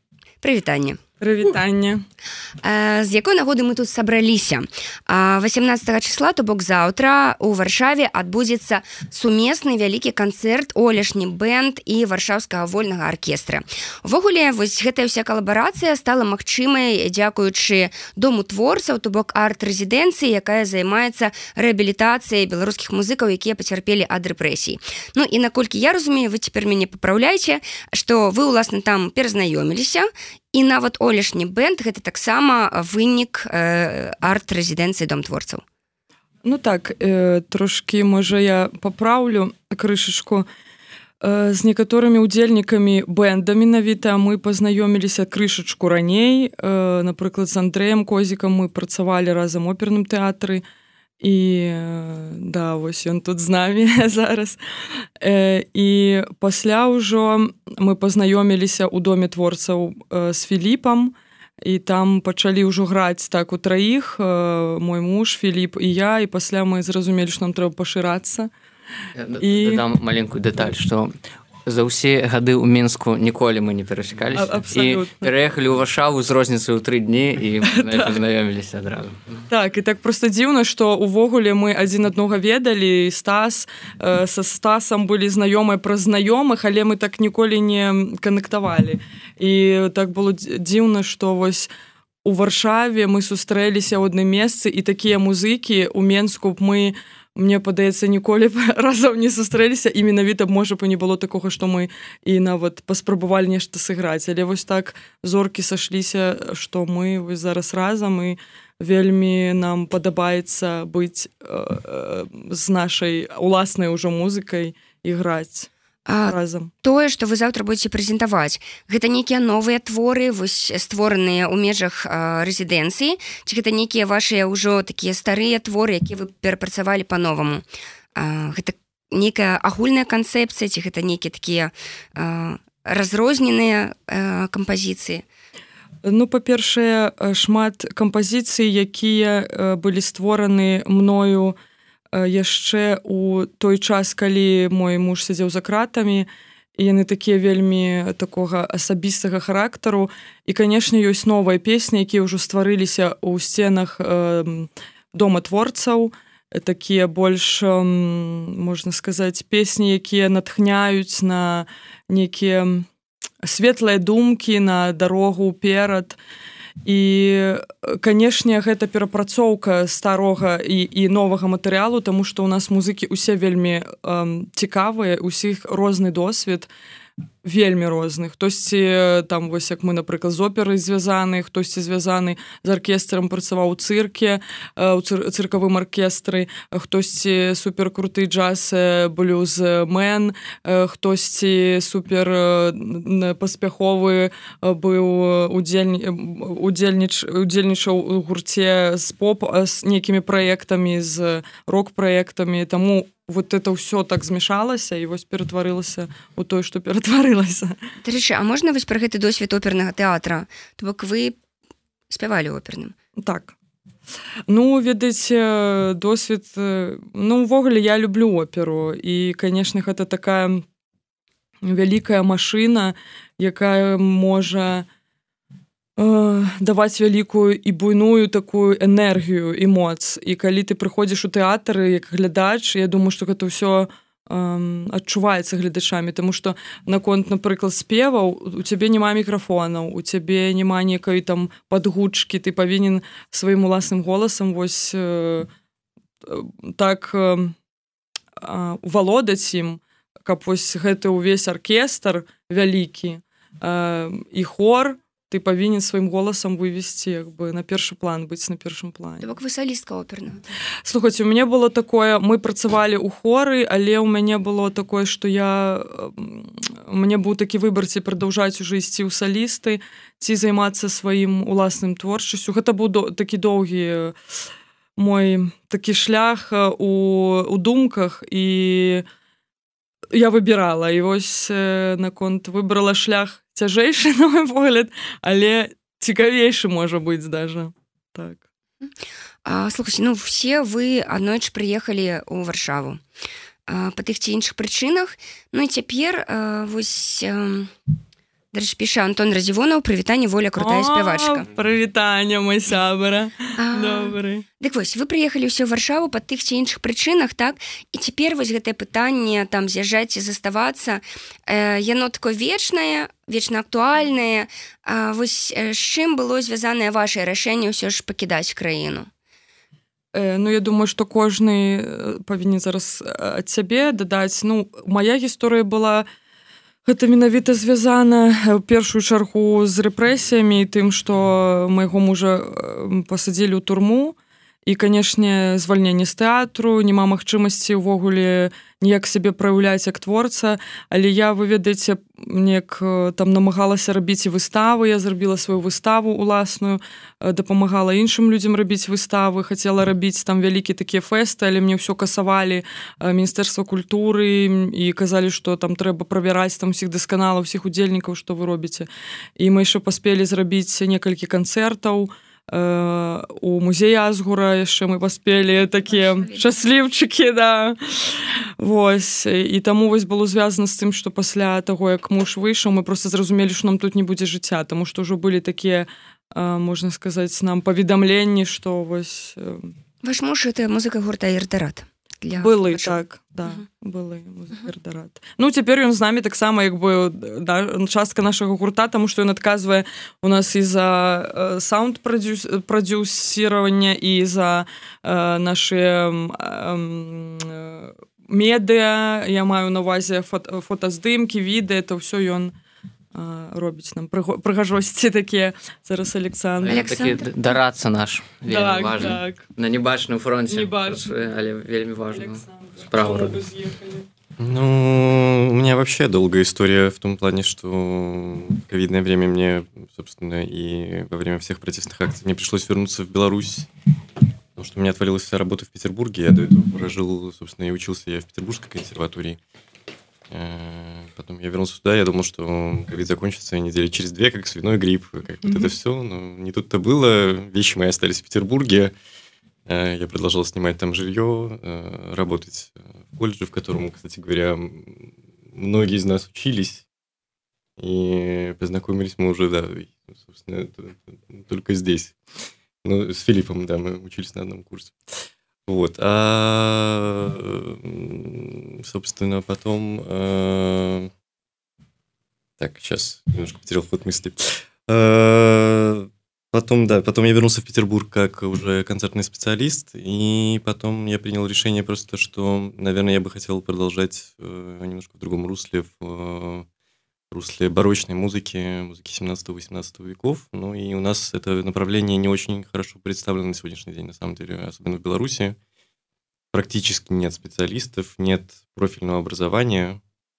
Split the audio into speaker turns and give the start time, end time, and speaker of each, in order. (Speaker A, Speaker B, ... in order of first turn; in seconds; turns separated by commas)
Speaker A: 0.4-1.0, Speaker B: 1.2-2.0, Speaker A: 2.6-35.6, Speaker B: 36.4-40.5, Speaker B: 41.2-50.6, Speaker B: 51.2-54.6, Speaker B: 55.2-68.5, Speaker C: 69.2-79.5, Speaker B: 69.4-69.8, Speaker B: 74.3-75.3, Speaker B: 77.7-78.2, Speaker B: 79.5-91.7, Speaker B: 92.2-115.7, Speaker A: 116.1-127.6, Speaker B: 116.3-116.7, Speaker A: 128.2-135.2, Speaker B: 136.0-141.6, Speaker B: 142.1-162.9, Speaker B: 163.4-166.2, Speaker B: 166.8-176.7, Speaker B: 177.4-207.8, Speaker A: 208.0-211.4, Speaker A: 212.1-212.9, Speaker B: 213.2-213.5, Speaker B: 214.5-220.6, Speaker B: 221.6-224.9, Speaker B: 226.0-245.5, Speaker B: 246.3-247.6, Speaker B: 248.4-259.2, Speaker A: 259.2-260.4, Speaker B: 260.9-274.2, Speaker B: 275.0-279.1, Speaker B: 280.1-288.4, Speaker A: 289.4-293.0, Speaker A: 293.7-297.7, Speaker A: 298.5-301.4, Speaker B: 300.6-304.4, Speaker A: 303.6-319.1, Speaker B: 320.1-326.1, Speaker B: 326.9-379.7, Speaker A: 365.9-366.5, Speaker A: 380.0-383.0, Speaker B: 382.4-402.5, Speaker B: 403.1-406.9, Speaker C: 406.6-413.5, Speaker A: 406.7-407.3, Speaker B: 408.5-409.5, Speaker B: 410.5-411.2, Speaker B: 412.1-414.1, Speaker D: 414.4-423.7, Speaker D: 424.6-429.4, Speaker D: 430.3-438.9, Speaker D: 439.7-446.9, Speaker D: 447.8-452.2, Speaker D: 452.8-454.9, Speaker D: 455.7-461.1, Speaker D: 462.6-476.7, Speaker D: 477.3-485.6, Speaker D: 486.5-490.0